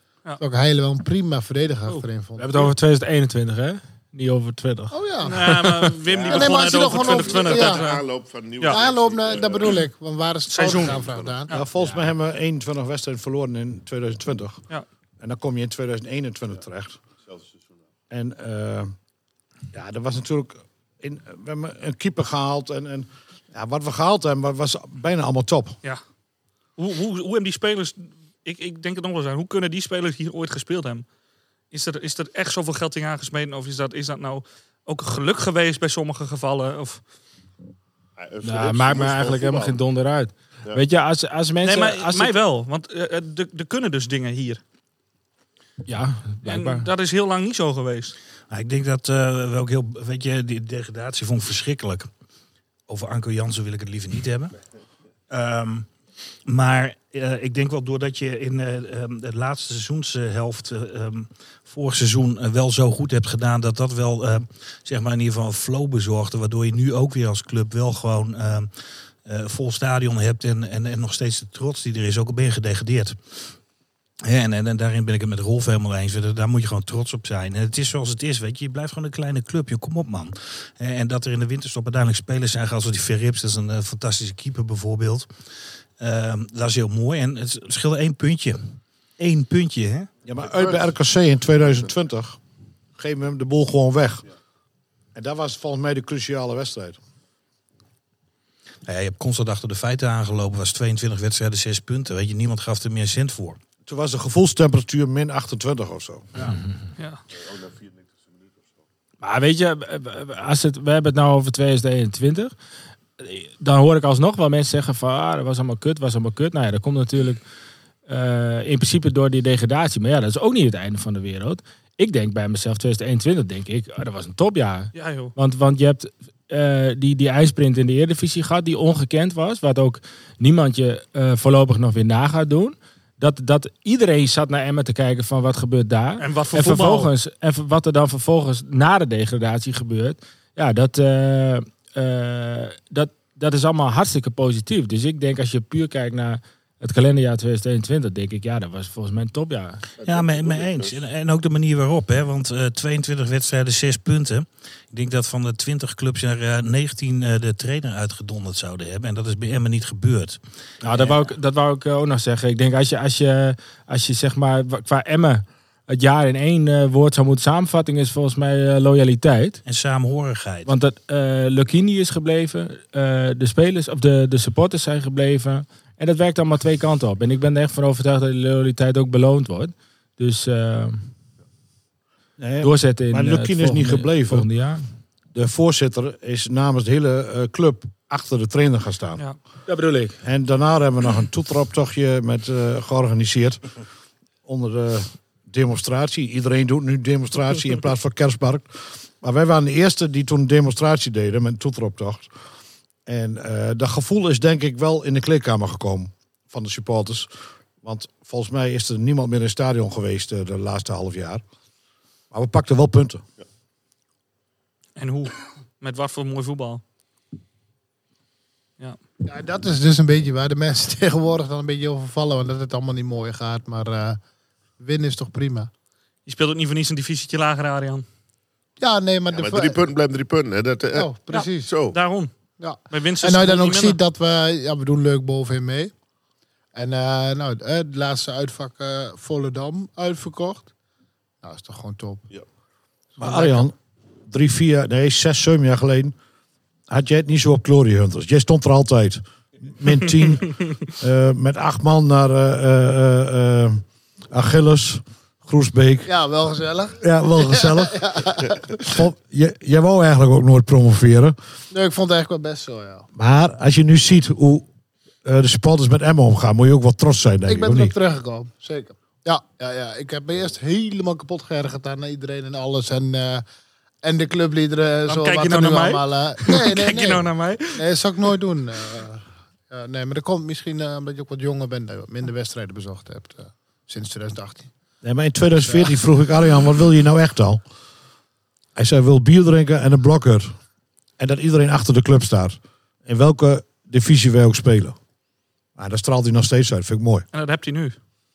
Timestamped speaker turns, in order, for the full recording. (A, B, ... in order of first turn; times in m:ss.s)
0:00.4-0:02.6 A
0:02.4-0:05.9 B
0:04.9-0:05.4 A
0:05.2-0:08.0 C
0:06.1-0:09.7 D
0:06.3-0:07.8 A
0:08.7-0:11.5 A
0:10.5-0:11.6 C
0:10.7-0:11.4 D
0:11.5-0:14.6 E
0:15.2-0:17.0 E
0:17.3-0:17.6 D
0:18.1-0:18.9 E
0:19.7-0:25.8 E
0:26.8-0:31.0 C
0:31.7-0:37.0 C
0:38.2-0:39.8 D
0:38.4-0:42.4 B
0:41.6-0:44.6 C
0:45.8-0:46.9 B
0:46.4-0:48.2 C
0:48.5-0:52.1 F
0:52.9-0:54.5 F
0:55.3-0:55.9 F
0:56.4-1:08.7 F
1:09.2-1:13.2 F
1:14.2-1:25.3 F
1:26.0-1:30.1 F
1:30.2-1:32.4 E
1:33.0-1:34.2 E
1:35.1-1:37.0 E
1:38.9-1:43.6 F
1:43.8-1:46.2 E
1:47.4-1:48.6 D
1:49.2-1:52.5 B
1:53.2-1:57.4 B
1:58.1-2:29.8 B
2:04.9-2:05.3 C
2:16.2-2:17.1 C
2:30.0-2:30.9 D
2:30.0-2:41.2 F
2:40.8-2:49.6 B
2:49.6-2:50.7 F
2:50.6-3:01.1 B
3:02.4-3:04.5 E
3:02.6-3:04.9 B
3:05.3-3:09.2 E
3:09.7-3:10.2 B
3:10.2-3:13.6 E
3:14.4-3:22.3 E
3:23.1-3:27.3 E
3:27.8-3:31.4 E
3:32.3-3:33.2 E
3:35.0-3:36.8 C
3:39.2-3:44.2 A
3:44.8-3:45.7 A
3:46.3-3:48.0 C
3:48.8-3:49.8 A
3:49.3-3:52.0 D
3:50.9-3:51.7 A
3:51.3-3:52.3 C
3:52.6-3:55.9 A
3:52.9-3:54.0 C
3:56.7-4:00.7 A
4:01.4-4:02.3 A
4:03.2-4:03.6 A
4:03.2-4:03.7 E
4:04.3-4:06.1 E
4:06.9-4:16.1 E
4:16.0-4:18.6 A
4:17.0-4:18.0 E
4:18.8-4:21.4 E
4:21.7-4:23.1 A
4:23.1-4:24.7 E
4:25.2-4:27.9 E
4:27.5-4:33.4 A
4:34.0-4:44.7 A
4:35.1-4:37.8 C
4:45.0-4:47.6 E
4:45.6-4:45.9 A
4:48.8-4:50.5 E
4:51.2-4:55.0 E
4:55.8-4:57.2 E
4:57.3-4:58.0 C